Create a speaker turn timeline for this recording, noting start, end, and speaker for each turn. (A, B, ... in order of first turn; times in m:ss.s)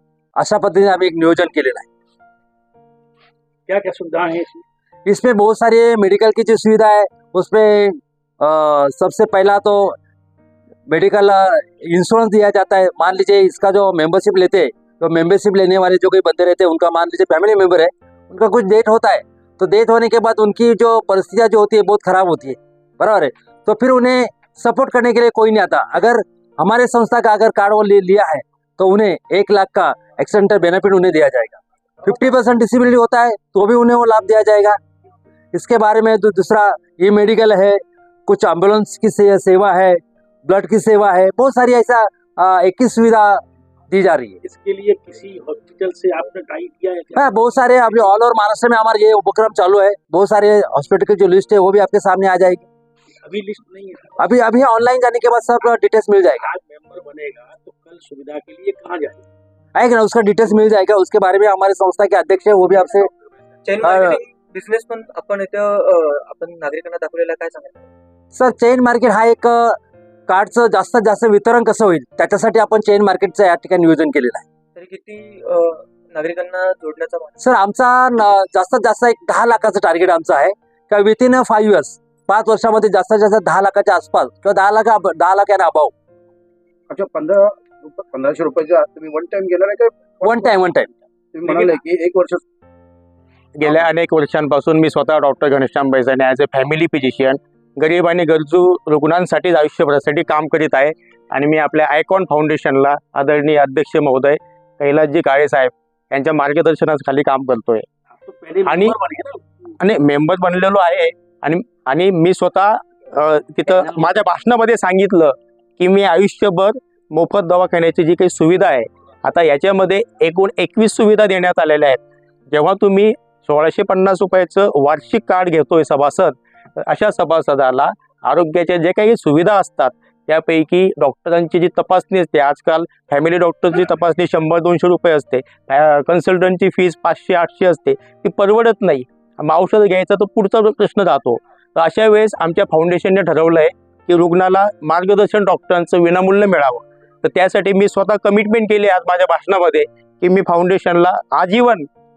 0:00.4-0:01.9 A
0:03.7-0:04.6 B
0:05.0-0:10.0 A
0:10.9-0:34.8 A
0:35.5-0:44.4 A
0:44.4-0:47.9 B
0:47.2-0:52.7 A
0:53.2-0:54.2 B
0:54.2-0:56.4 A
0:56.4-0:59.2 B
0:59.7-1:03.1 A
1:03.6-1:07.8 C
1:03.8-1:04.2 A
1:08.3-1:14.4 A
1:14.8-1:17.3 C
1:17.4-1:25.9 A
1:26.9-1:30.6 D
1:30.2-1:30.9 A
1:31.3-1:32.4 D
1:33.6-1:47.9 E
1:48.2-1:49.4 B
1:48.6-1:49.0 E
1:49.8-2:31.9 E